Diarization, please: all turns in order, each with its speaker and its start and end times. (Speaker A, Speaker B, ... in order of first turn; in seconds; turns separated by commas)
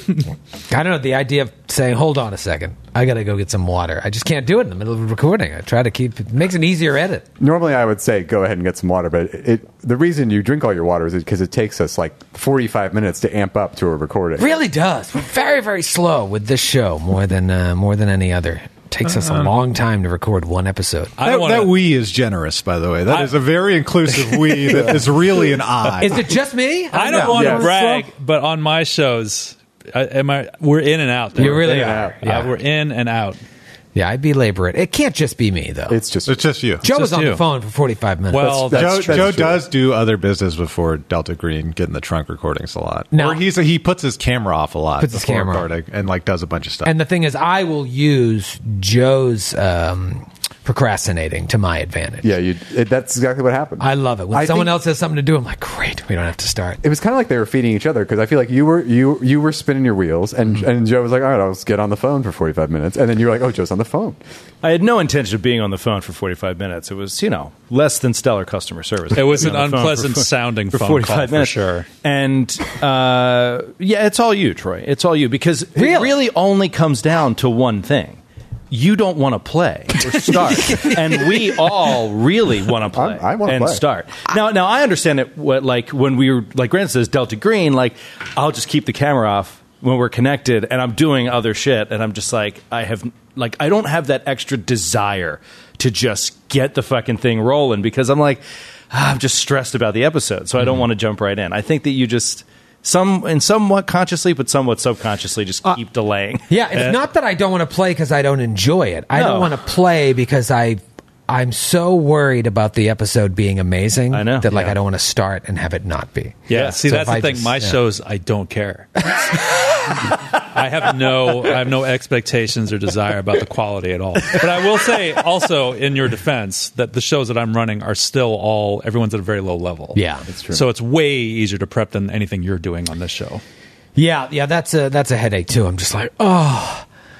Speaker A: 0.7-7.2, Speaker B: 7.4-14.5, Speaker A: 14.4-21.1, Speaker C: 19.1-19.5, Speaker D: 21.2-21.7, Speaker C: 21.2-26.2, Speaker D: 23.1-23.4, Speaker A: 26.0-28.1, Speaker D: 26.9-33.4, Speaker B: 27.2-27.7, Speaker A: 31.4-32.5, Speaker B: 31.4-32.5, Speaker A: 33.9-36.0, Speaker B: 35.9-36.4, Speaker C: 36.3-36.8, Speaker D: 36.8-37.4, Speaker A: 36.8-38.5, Speaker D: 38.3-39.4, Speaker B: 38.4-39.6, Speaker C: 38.5-46.9, Speaker A: 43.1-43.4, Speaker A: 45.0-45.7, Speaker A: 46.8-52.3, Speaker B: 52.2-54.7, Speaker A: 53.8-56.8, Speaker B: 56.8-64.2, Speaker E: 64.6-78.2, Speaker D: 69.1-71.9, Speaker A: 75.8-76.1, Speaker E: 78.7-106.5, Speaker B: 80.1-80.8, Speaker B: 82.9-83.8, Speaker A: 106.5-117.8, Speaker D: 106.7-107.0, Speaker E: 109.1-109.5, Speaker E: 114.1-114.7, Speaker D: 116.5-119.1, Speaker D: 120.1-130.0, Speaker A: 129.9-130.3, Speaker B: 130.3-130.6, Speaker D: 130.5-133.4, Speaker A: 133.9-136.8